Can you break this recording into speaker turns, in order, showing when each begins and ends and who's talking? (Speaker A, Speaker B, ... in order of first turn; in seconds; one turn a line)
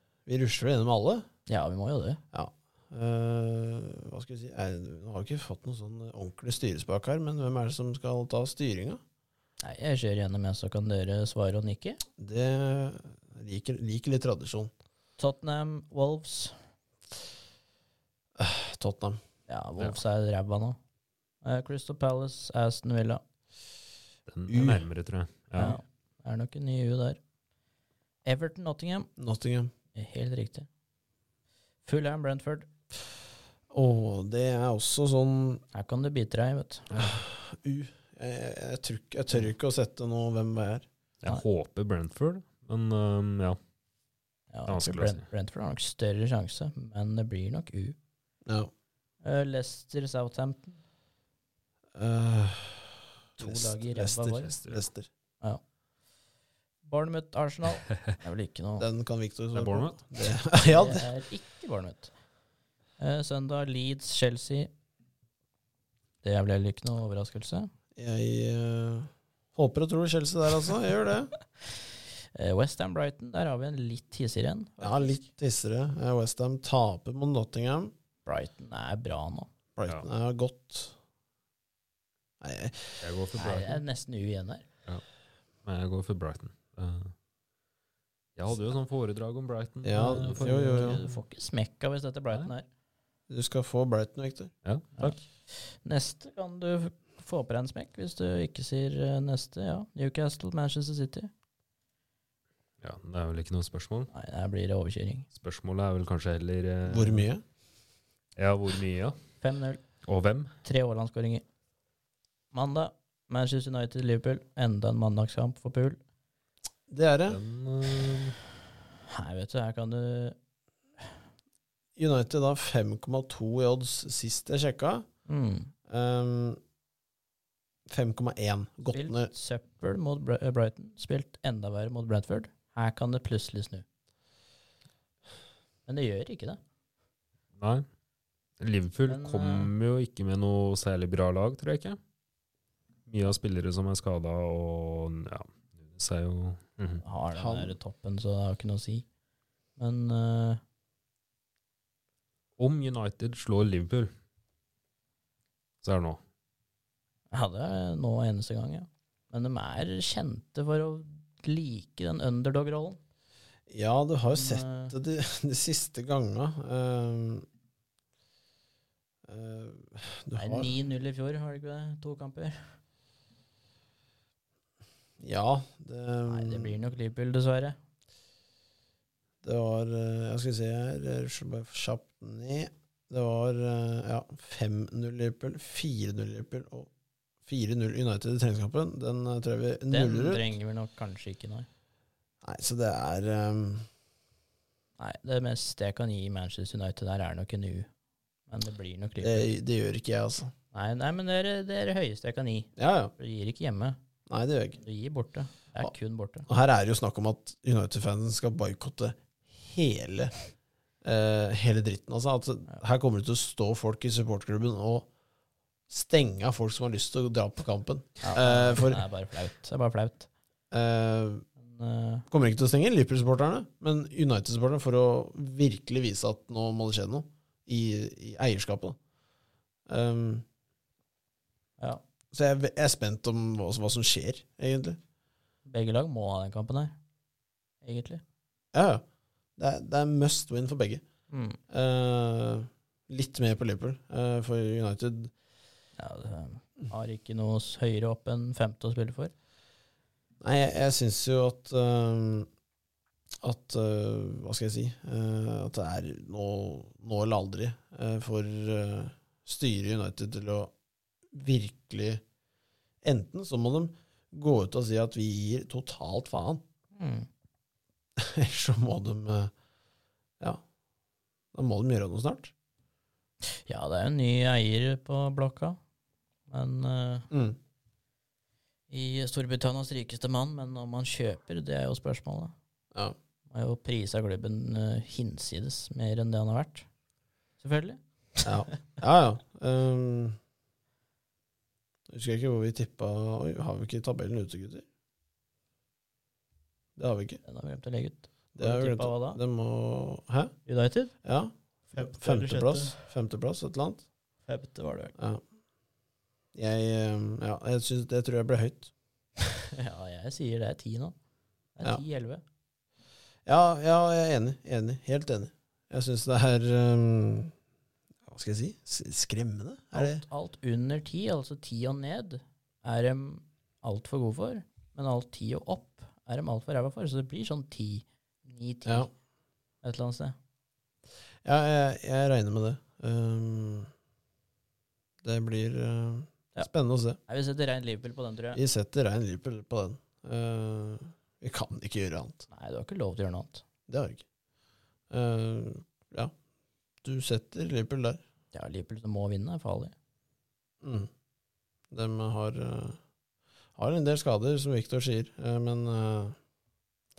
Speaker A: 0.2-1.3
Speaker B: 1.5-2.2
Speaker A: 2.3-9.0
Speaker B: 9.6-12.0
Speaker A: 12.2-14.7
Speaker B: 15.2-16.5
Speaker A: 18.4-19.2
Speaker B: 19.5-20.8
Speaker B: 21.4-23.2
Speaker C: 24.3-25.8
Speaker A: 24.5-24.9
Speaker B: 25.6-27.2
Speaker B: 28.2-29.1
Speaker A: 29.2-29.7
Speaker B: 29.9-30.7
Speaker B: 31.8-32.7
Speaker A: 33.7-35.6
Speaker B: 35.7-36.9
Speaker C: 36.9-37.2
Speaker A: 37.0-40.9
Speaker C: 41.2-43.6
Speaker B: 44.5-48.0
Speaker C: 44.7-45.2
Speaker B: 49.2-50.8
Speaker A: 51.9-55.1
Speaker B: 53.4-54.5
Speaker C: 54.4-54.8
Speaker B: 56.8-58.9
Speaker A: 58.8-61.1
Speaker C: 59.5-60.0
Speaker B: 60.6-62.1
Speaker B: 63.0-64.7
Speaker B: 66.2-67.7
Speaker A: 68.0-71.3
Speaker B: 72.3-75.2
Speaker A: 74.8-77.9
Speaker B: 78.2-79.5
Speaker A: 79.8-81.0
Speaker A: 82.4-83.0
Speaker C: 83.0-83.8
Speaker B: 83.3-84.6
Speaker C: 85.6-87.1
Speaker C: 88.3-91.1
Speaker A: 89.8-91.0
Speaker B: 90.0-92.7
Speaker A: 93.3-94.5
Speaker C: 94.6-95.1
Speaker B: 95.0-101.3
Speaker C: 102.8-104.1
Speaker B: 104.1-105.2
Speaker C: 105.3-107.3
Speaker A: 106.9-107.4
Speaker C: 108.4-109.2
Speaker B: 109.4-109.8
Speaker C: 110.0-110.5
Speaker B: 110.6-111.4
Speaker B: 112.5-116.0
Speaker A: 116.9-117.4
Speaker C: 117.3-118.4
Speaker B: 119.1-120.3
Speaker A: 122.0-125.0
Speaker B: 125.3-125.7
Speaker A: 125.9-126.6
Speaker A: 127.9-129.3
Speaker B: 128.9-133.8
Speaker B: 135.9-136.6
Speaker C: 137.6-137.8
Speaker C: 138.6-142.0
Speaker B: 139.1-139.7
Speaker C: 143.1-147.0
Speaker B: 147.0-149.0
Speaker A: 147.3-147.8
Speaker B: 149.8-150.6
Speaker C: 152.6-154.1
Speaker C: 155.8-156.2
Speaker B: 157.3-163.0
Speaker A: 163.7-167.4
Speaker B: 164.3-164.9
Speaker A: 169.2-170.7
Speaker B: 170.3-172.6
Speaker A: 175.2-176.8
Speaker B: 176.3-177.8
Speaker A: 179.4-186.9
Speaker A: 187.4-190.4
Speaker B: 189.9-191.7
Speaker A: 192.4-193.9
Speaker B: 195.0-197.9
Speaker B: 198.5-199.5
Speaker A: 199.2-200.5
Speaker B: 200.7-204.0
Speaker A: 202.8-203.1
Speaker A: 204.3-204.8
Speaker B: 204.8-206.5
Speaker A: 206.5-210.3
Speaker A: 211.0-215.1
Speaker A: 215.9-219.0
Speaker B: 218.2-220.3
Speaker A: 220.7-221.4
Speaker B: 221.6-222.2
Speaker A: 222.3-229.0
Speaker A: 229.9-230.4
Speaker A: 232.3-235.0
Speaker B: 235.7-236.9
Speaker B: 237.8-238.2
Speaker A: 238.7-239.0
Speaker A: 239.6-241.0
Speaker B: 241.3-241.6
Speaker A: 241.7-245.3
Speaker B: 246.0-249.3
Speaker A: 250.4-252.5
Speaker A: 253.4-260.7
Speaker A: 261.3-262.2
Speaker A: 263.0-266.6
Speaker B: 266.9-267.3
Speaker A: 268.2-269.5
Speaker A: 271.5-272.5
Speaker B: 273.5-275.8
Speaker B: 276.5-277.3
Speaker A: 277.3-277.6
Speaker B: 278.9-282.5
Speaker B: 283.5-286.9
Speaker B: 287.6-288.5
Speaker A: 288.4-290.4
Speaker A: 292.1-294.8
Speaker A: 297.0-297.4
Speaker B: 297.4-299.4
Speaker A: 298.5-300.5
Speaker B: 300.6-301.1
Speaker A: 301.2-304.0
Speaker B: 301.9-302.9
Speaker B: 304.4-305.1
Speaker A: 305.2-305.4
Speaker A: 306.5-308.9
Speaker B: 309.6-311.1
Speaker B: 311.7-312.4
Speaker A: 313.4-317.5
Speaker A: 318.3-320.2
Speaker B: 319.9-329.1
Speaker B: 329.8-330.4
Speaker A: 331.4-333.9
Speaker A: 335.2-337.2
Speaker B: 337.3-338.6
Speaker A: 338.5-342.4
Speaker B: 342.5-343.6
Speaker A: 343.9-344.2
Speaker A: 345.1-346.3
Speaker A: 347.0-348.2
Speaker B: 348.5-349.9
Speaker A: 350.8-351.1
Speaker A: 351.9-353.0
Speaker A: 353.8-356.4